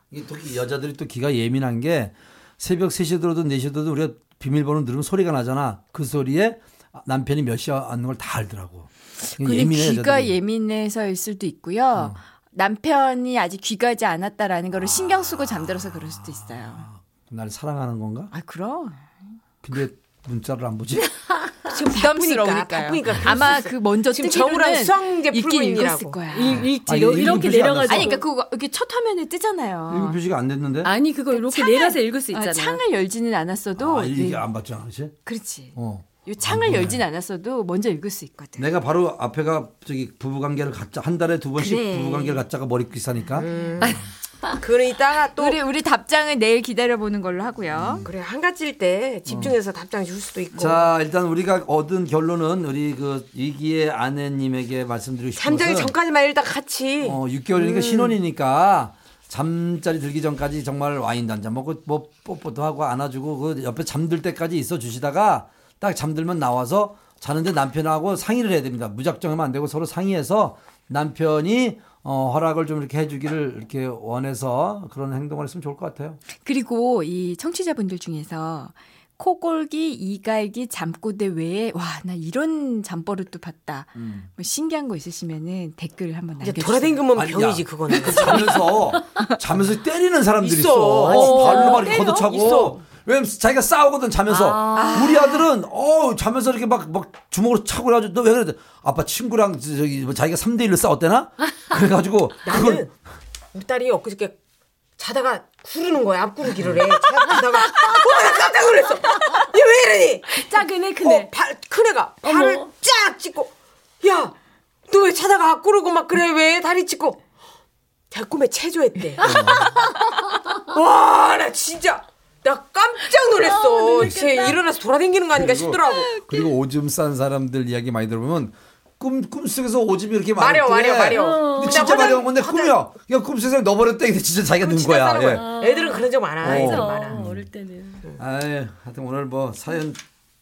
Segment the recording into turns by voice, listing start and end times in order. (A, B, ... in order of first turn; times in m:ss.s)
0:00.1-0:10.4 A
0:09.2-0:16.9 B
0:14.8-0:18.3 A
0:18.3-0:19.1 B
0:19.6-0:21.1 A
0:21.6-0:26.2 C
0:21.9-0:30.2 B
0:26.3-0:28.2 D
0:26.5-0:28.1 A
0:29.9-0:30.9 A
0:30.8-0:32.8 D
0:31.3-0:34.4 B
0:33.8-0:35.2 A
0:35.2-0:38.7 B
0:35.7-0:37.0 A
0:38.6-0:43.5 A
0:41.6-0:42.4 B
0:43.4-0:45.6 C
0:43.4-0:43.9 B
0:43.8-0:44.6 D
0:45.4-0:48.1 B
0:47.7-0:48.1 A
0:48.0-0:50.9 C
0:49.2-0:49.5 A
0:50.6-0:55.9 A
0:55.4-0:58.1 C
0:57.0-1:16.2 A
1:16.3-1:27.1 B
1:24.0-1:24.3 A
1:26.4-1:28.9 C
1:27.1-1:42.8 A
1:28.0-1:28.5 B
1:30.4-1:32.8 C
1:31.0-1:32.2 D
1:31.1-1:31.7 B
1:34.3-1:35.2 D
1:34.7-1:35.5 B
1:42.4-1:42.9 C
1:43.5-1:44.4 C
1:45.0-1:54.3 C
1:50.3-1:51.3 D
1:52.2-1:52.6 D
1:54.9-1:57.2 C
1:58.1-1:59.9 C
1:59.2-1:59.7 A
2:00.6-2:06.2 C
2:03.4-2:04.6 D
2:05.3-2:15.4 A
2:05.8-2:06.5 B
2:10.3-2:12.9 C
2:11.1-2:12.1 D
2:14.6-2:17.2 C
2:15.3-2:18.0 D
2:16.4-2:17.5 A
2:18.1-2:20.0 A